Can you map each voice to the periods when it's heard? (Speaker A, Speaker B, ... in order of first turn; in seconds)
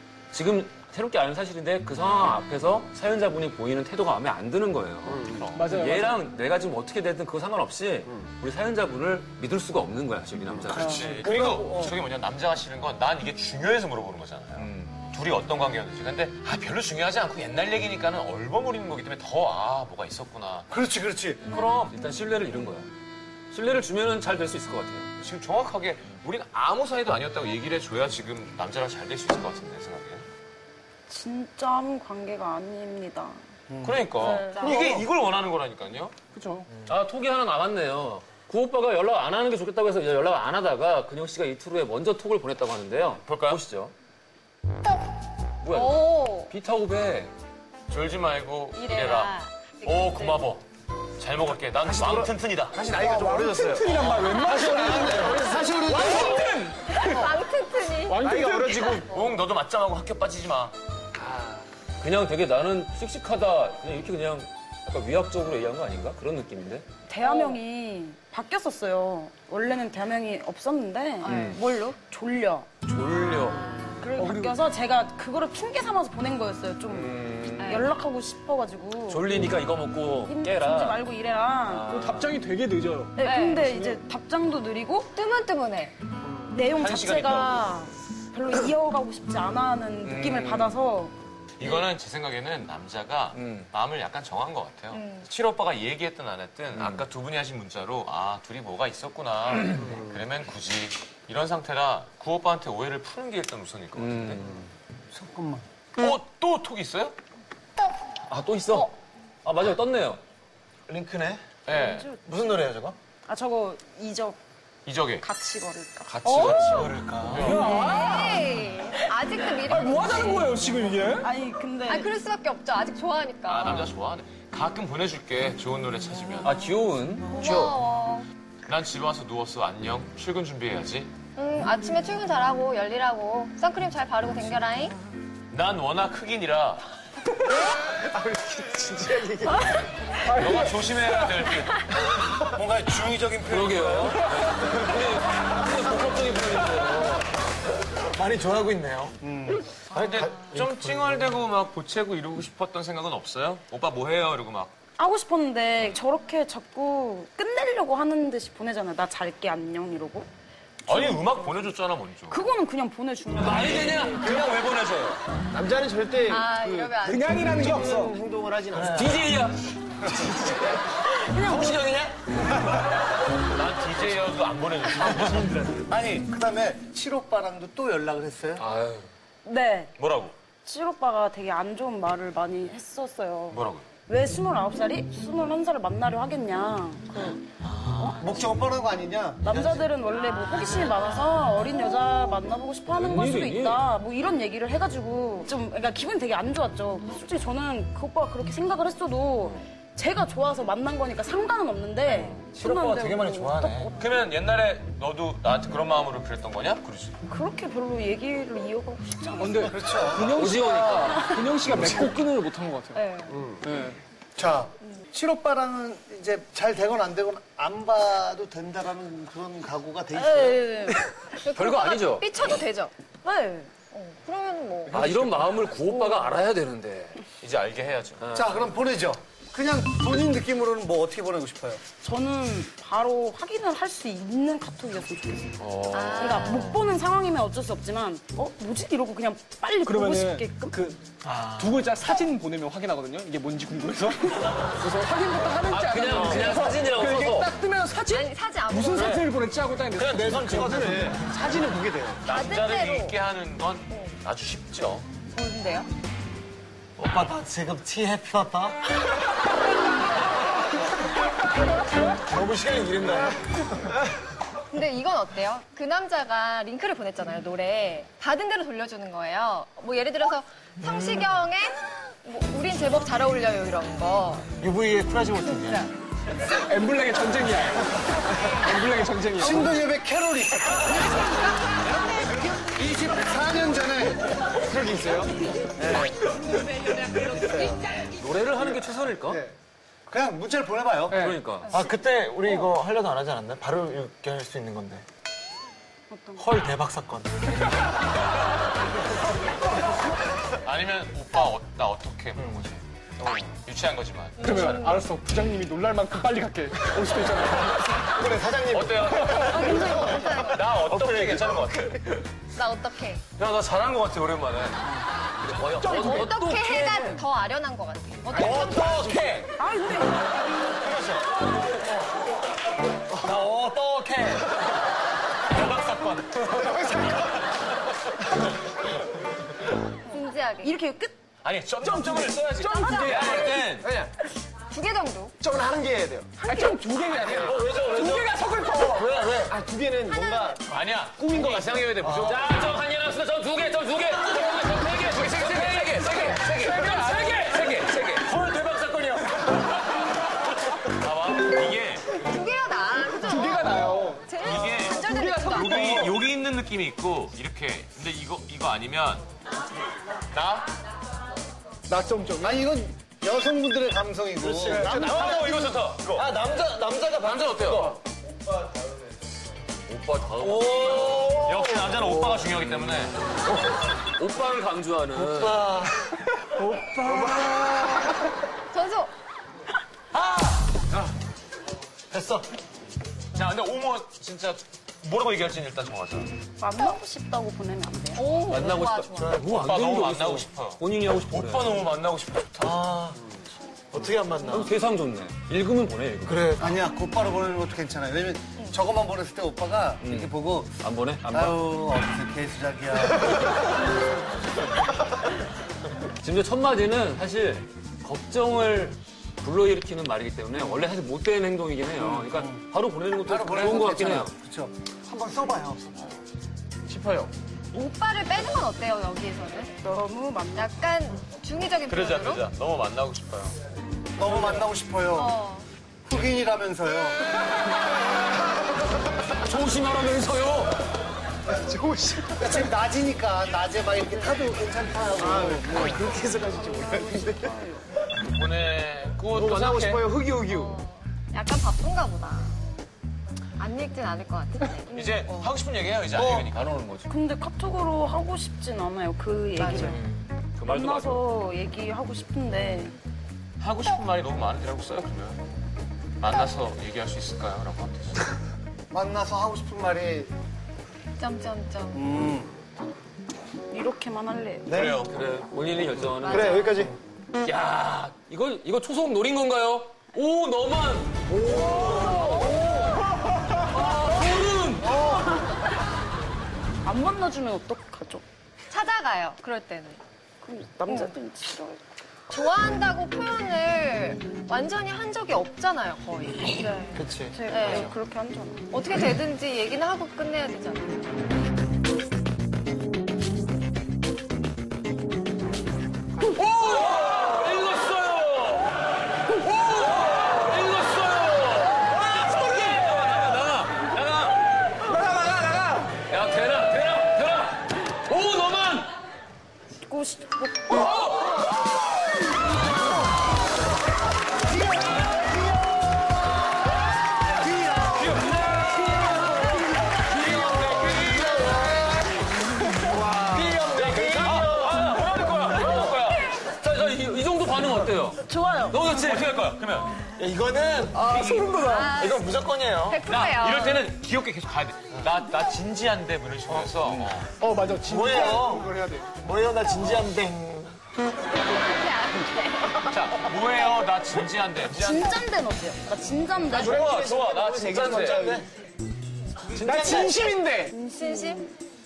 Speaker A: 0.3-11.1, 14.6-15.0, 21.5-22.9, 23.5-25.1, 36.9-43.9, 45.6-47.3, 62.0-66.9, 71.2-71.6, 72.9-73.8, 76.9-77.9, 79.1-81.0, 81.7-82.2, 90.0-90.8, 93.3-93.7, 96.8-97.0, 104.0-104.5, 108.3-110.2, 116.1-116.8, 126.4-127.6, 143.5-147.3, 163.4-165.1, 168.9-169.6, 178.6-179.1, 192.9-193.8, 202.1-202.4, 210.2-212.1, 221.6-222.6, 224.9-227.2, 228.2-228.7, 235.6-236.5, 245.7-247.6, 288.2-289.4, 291.1-291.7, 315.4-317.2, 342.2-348.5, 369.9-371.4, 372.6-373.0, 374.2-375.6, 388.5-391.9, 394.5-396.5, 400.0-401.6, 406.2-414.3, 429.4-430.8, 446.3-446.8, 450.6-451.2, 464.9-466.7, 467.4-472.6, 473.7-474.9, 496.3-498.8, 499.3-504.4, 506.1-508.9, 510.7-511.4, 517.8-521.7, 524.1-529.4
Speaker B: 5.1-5.5, 10.5-10.9, 51.8-54.0, 54.5-56.5, 58.1-59.1, 61.2-61.6, 99.8-100.1, 138.2-139.5, 165.5-169.3, 213.3-213.7, 250.3-252.2, 331.9-332.3, 333.0-334.1, 335.4-336.4, 337.3-337.6, 339.5-342.1, 431.5-432.7, 435.2-437.6, 439.3-440.8, 466.3-466.9, 546.5-548.5, 549.9-550.6
Speaker C: 5.3-5.7, 10.7-20.7, 21.5-21.9, 25.2-30.2, 33.8-36.1, 43.3-43.6, 47.9-50.6, 51.2-52.8, 59.1-60.7, 86.7-87.7, 91.6-104.4, 106.0-107.2, 111.7-112.1, 114.9-115.3, 116.2-117.6, 123.5-126.6, 128.7-131.1, 135.5-136.8, 140.3-141.9, 149.9-154.7, 160.9-162.4, 173.5-175.6, 180.0-180.3, 183.5-183.9, 203.9-207.1, 227.4-228.3, 252.3-255.1, 300.6-302.8, 303.6-305.0, 308.7-309.6, 310.5-312.1, 313.4-314.8, 325.5-326.4, 331.4-333.9, 337.3-338.3, 340.7-342.5, 345.1-347.1, 350.9-352.2, 354.4-359.2, 360.3-360.7, 364.6-366.3, 367.2-368.0, 371.4-373.2, 383.3-386.3, 389.5-392.8, 416.9-417.3, 421.9-423.6, 438.3-440.0, 444.9-447.1, 453.6-455.4, 456.2-458.2, 464.7-465.1, 520.4-521.3, 523.8-526.3, 528.9-530.0, 533.0-537.3, 542.9-545.2, 546.5-548.4
Speaker D: 5.5-6.2, 36.3-36.7, 53.0-57.3, 58.1-59.0, 74.2-74.6, 81.9-83.2, 117.4-118.6, 119.4-121.3, 140.2-141.1, 167.0-168.1, 209.4-213.0, 213.6-214.0, 239.9-241.0, 241.6-251.1, 276.7-279.8, 291.1-291.4, 304.4-308.1, 331.8-333.7, 336.4-339.1, 347.1-347.5, 353.2-356.2, 361.9-362.7, 530.9-532.0, 537.3-539.1, 549.6-550.7
Speaker E: 11.2-11.8, 20.7-21.5, 33.7-34.1, 54.5-56.5, 105.1-105.6, 142.5-144.3, 149.2-149.7, 175.6-178.7, 188.2-189.9, 209.7-210.4, 214.4-220.9, 228.3-231.8, 279.4-281.0, 282.6-284.3, 285.8-286.1, 287.2-287.7, 290.1-291.2, 362.4-365.7, 396.6-400.8, 401.3-403.7, 412.0-412.6, 413.2-415.9, 424.2-425.4, 426.1-427.2, 432.4-436.1, 458.9-460.3, 461.9-462.6, 474.8-475.4, 514.5-516.0, 517.4-518.4
Speaker F: 11.3-11.5, 110.9-111.5, 112.2-113.0, 116.7-117.5, 148.0-149.2, 149.9-151.3, 168.7-169.2, 171.3-172.2, 187.6-188.4, 202.5-203.9, 241.2-241.9, 249.9-251.8, 257.0-258.8, 262.2-264.1, 270.8-271.3, 274.6-275.9, 291.7-295.0, 296.4-297.6, 302.4-302.7, 308.0-312.0, 318.3-319.5, 320.8-321.2, 323.1-324.4, 325.6-326.4, 337.9-338.3, 338.8-339.6, 342.0-342.4, 364.4-368.0, 370.5-371.3, 375.1-377.9, 380.1-380.6, 382.1-382.5, 389.1-389.8, 392.6-393.2, 393.9-394.7, 396.3-396.9, 449.7-450.3, 486.9-487.9, 523.3-524.9, 530.2-533.0, 536.5-537.1, 537.8-540.8, 547.8-548.5, 549.5-550.3
Speaker G: 31.1-33.4, 34.2-34.9, 67.1-72.7, 74.0-79.3, 80.3-82.2, 83.2-85.1, 86.5-91.1, 111.7-112.2, 113.3-114.4, 115.2-116.5, 117.7-118.2, 121.2-122.1, 155.0-160.3, 160.9-161.2, 162.3-164.1, 171.4-171.7, 179.4-179.9, 180.7-187.4, 188.0-188.2, 189.4-204.1, 207.3-209.9, 211.0-211.4, 220.1-221.0, 223.2-223.7, 232.0-235.6, 236.2-240.8, 296.1-296.4, 309.5-310.2, 319.6-320.4, 330.1-331.1, 336.4-336.9, 386.6-388.4, 419.8-420.7, 436.5-437.8, 447.1-450.0, 450.6-452.9, 463.7-464.8, 476.9-478.2, 480.4-481.8, 486.6-488.8, 509.9-511.1, 528.3-528.8, 544.7-546.9, 550.8-551.5
Speaker H: 34.2-35.1, 45.7-46.5, 48.7-50.5, 54.1-55.2, 56.8-58.2, 67.2-67.6, 71.2-71.6, 77.6-77.9, 83.2-83.8, 85.2-86.0, 94.9-95.3, 116.2-116.8, 117.6-120.9, 121.9-123.9, 127.3-128.3, 131.3-135.0, 166.3-167.7, 190.2-190.8, 212.9-213.4, 221.3-222.9, 223.9-225.1, 235.9-236.8, 246.4-246.8, 248.1-249.3, 252.2-253.2, 253.9-254.2, 255.3-255.9, 264.7-274.5, 291.6-291.9, 304.4-305.0, 309.5-310.6, 312.5-313.2, 315.8-319.4, 330.1-330.8, 334.7-335.4, 352.2-356.0, 378.7-379.1, 388.1-389.5, 417.7-419.8, 420.6-422.5, 425.1-425.7, 440.4-442.6, 443.6-445.5, 449.6-450.0, 461.2-462.1, 466.2-466.8, 472.2-472.8, 478.7-480.0, 480.9-481.2, 482.3-487.9, 488.7-491.1, 531.6-533.9, 541.4-542.9, 550.7-551.5